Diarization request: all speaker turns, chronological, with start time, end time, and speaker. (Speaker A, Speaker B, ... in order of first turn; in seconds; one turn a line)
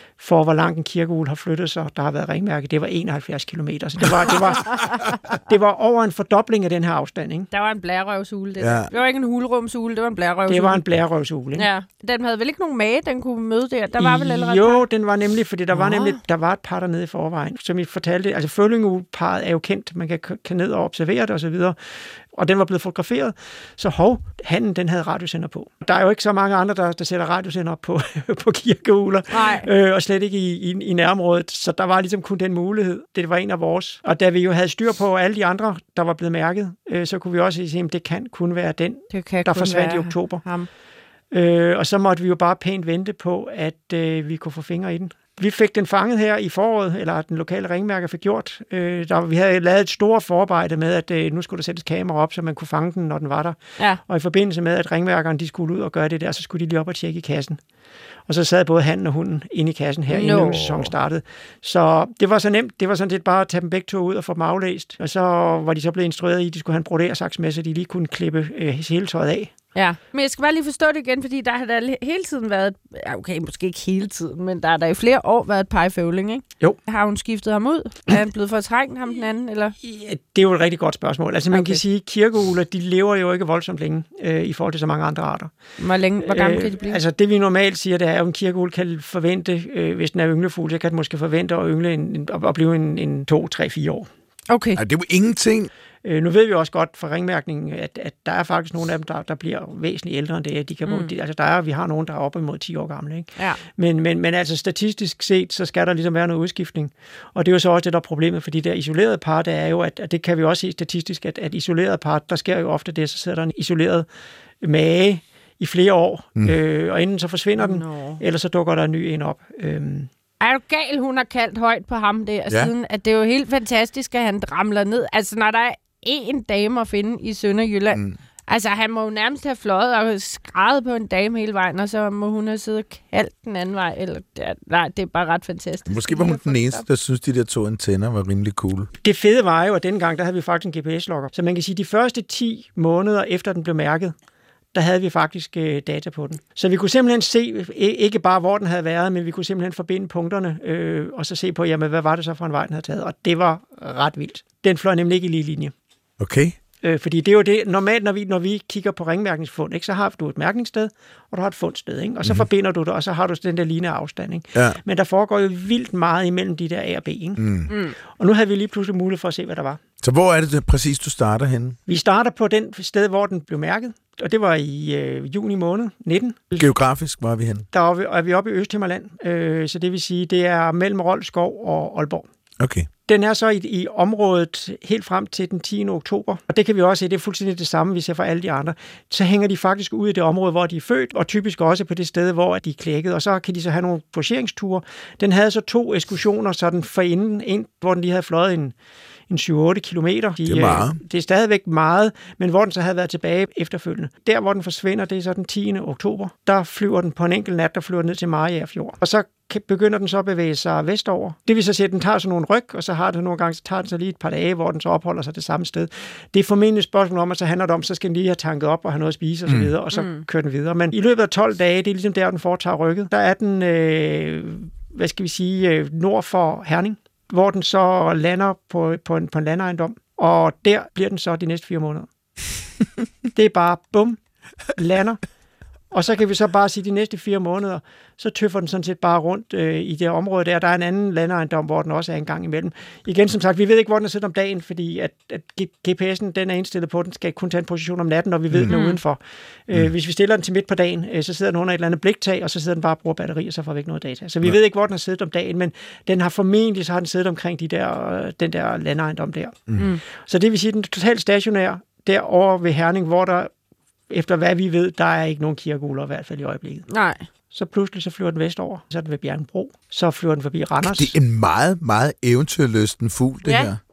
Speaker A: 0.2-7.5
Speaker B: 7.5-10.8
Speaker C: 8.6-8.9
Speaker A: 10.5-11.7
Speaker B: 11.6-14.8
Speaker A: 14.0-40.4
Speaker B: 15.7-16.2
Speaker B: 29.3-29.7
Speaker B: 39.1-40.7
Speaker A: 41.3-57.6
Speaker A: 58.3-69.5
Speaker B: 60.1-60.9
Speaker B: 69.8-79.7
Speaker A: 79.8-85.5
Speaker B: 81.5-81.8
Speaker B: 85.8-87.0
Speaker A: 86.2-94.1
Speaker B: 94.5-94.8
Speaker C: 94.8-95.7
Speaker A: 96.0-114.1
Speaker B: 100.9-101.1
Speaker A: 114.6-120.1
Speaker B: 117.6-118.2
Speaker B: 120.4-136.8
Speaker C: 127.9-128.2
Speaker C: 135.9-138.9
Speaker A: 139.0-144.1
Speaker A: 144.7-155.7
Speaker C: 156.2-156.6
Speaker A: 156.8-169.8
Speaker C: 167.4-167.7
Speaker B: 167.7-167.9
Speaker C: 170.0-171.8
Speaker A: 171.9-176.7
Speaker C: 176.6-177.7
Speaker A: 177.7-182.2
Speaker C: 182.6-182.9
Speaker A: 183.1-198.7
Speaker A: 199.3-232.1
Speaker C: 200.4-201.0
Speaker C: 219.5-219.7
Speaker B: 219.9-220.2
Speaker A: 233.3-234.2
Speaker A: 234.7-235.2
Speaker A: 235.9-263.5
Speaker B: 248.7-249.0
Speaker A: 264.1-266.9
Speaker B: 266.9-267.3
Speaker A: 267.5-271.1
Speaker C: 270.8-273.8
Speaker B: 273.5-273.7